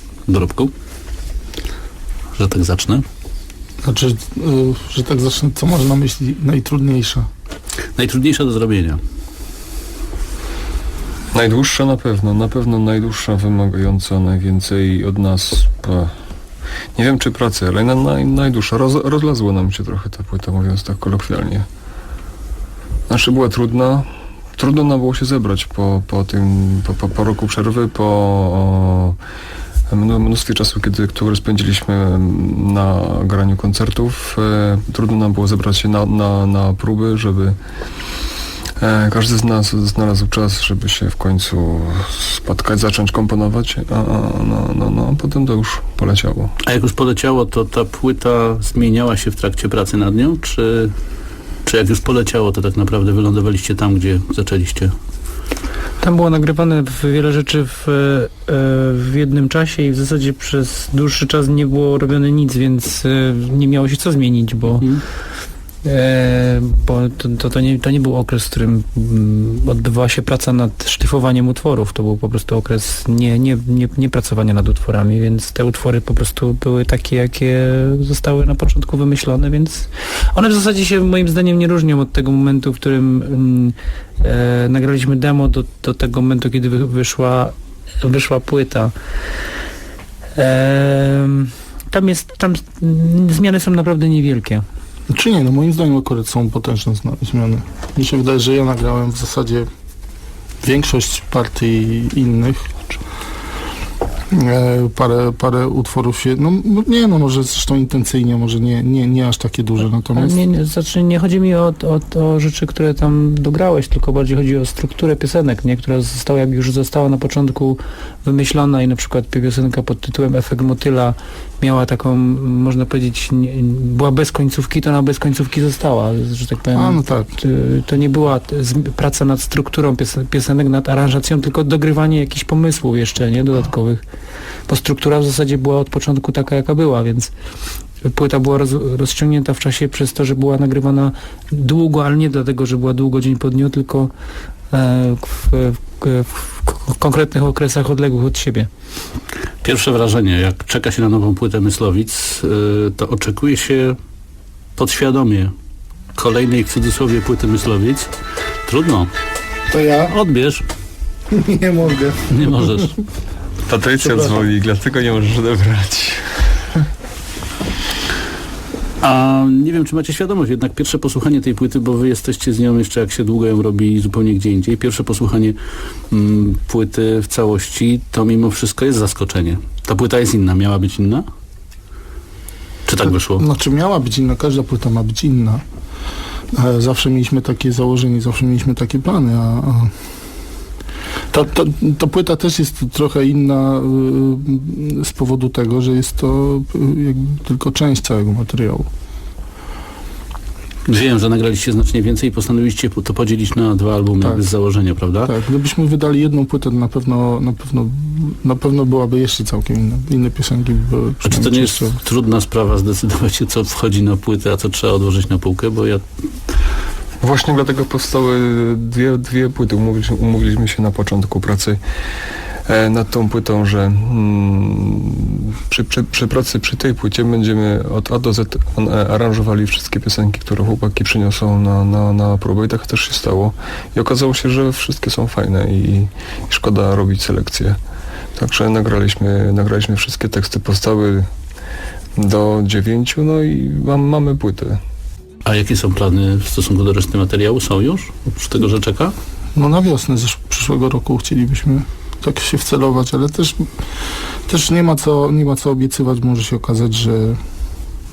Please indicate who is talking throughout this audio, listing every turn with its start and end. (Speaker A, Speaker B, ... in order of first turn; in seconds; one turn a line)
Speaker A: 0.3-0.7
Speaker A: 2.3-3.0
Speaker B: 3.8-7.3
Speaker A: 8.0-9.0
Speaker C: 11.3-16.1
Speaker C: 17.0-21.7
Speaker C: 23.1-29.2
Speaker C: 29.9-37.6
Speaker C: 38.8-46.5
Speaker A: 46.6-50.9
Speaker A: 51.6-54.9
Speaker D: 56.0-64.9
Speaker D: 65.8-88.9
Speaker D: 90.3-94.6
Speaker B: 95.1-99.7
Speaker B: 100.6-102.8
Speaker B: 104.3-110.4
Speaker D: 110.1-134.0
Speaker B: 126.7-127.3
Speaker D: 134.7-137.3
Speaker D: 138.0-144.1
Speaker D: 144.7-148.7
Speaker A: 149.6-153.9
Speaker A: 154.8-155.5
Speaker A: 156.2-158.2
Speaker A: 158.7-159.1
Speaker B: 159.7-160.2
Speaker A: 160.0-160.7
Speaker B: 161.3-162.8
Speaker A: 162.3-163.0
Speaker C: 163.7-166.2
Speaker A: 169.0-175.6
Speaker A: 176.1-181.2
Speaker A: 182.8-183.4
Speaker B: 183.2-185.6
Speaker B: 186.5-189.9
Speaker B: 191.3-198.9
Speaker A: 200.9-205.3
Speaker B: 204.2-204.5
Speaker B: 205.2-212.0
Speaker A: 211.2-216.0
Speaker C: 217.2-221.8
Speaker C: 222.7-237.8
Speaker C: 238.3-241.2
Speaker C: 242.2-244.8
Speaker A: 245.4-249.1
Speaker B: 249.5-253.7
Speaker B: 254.5-257.4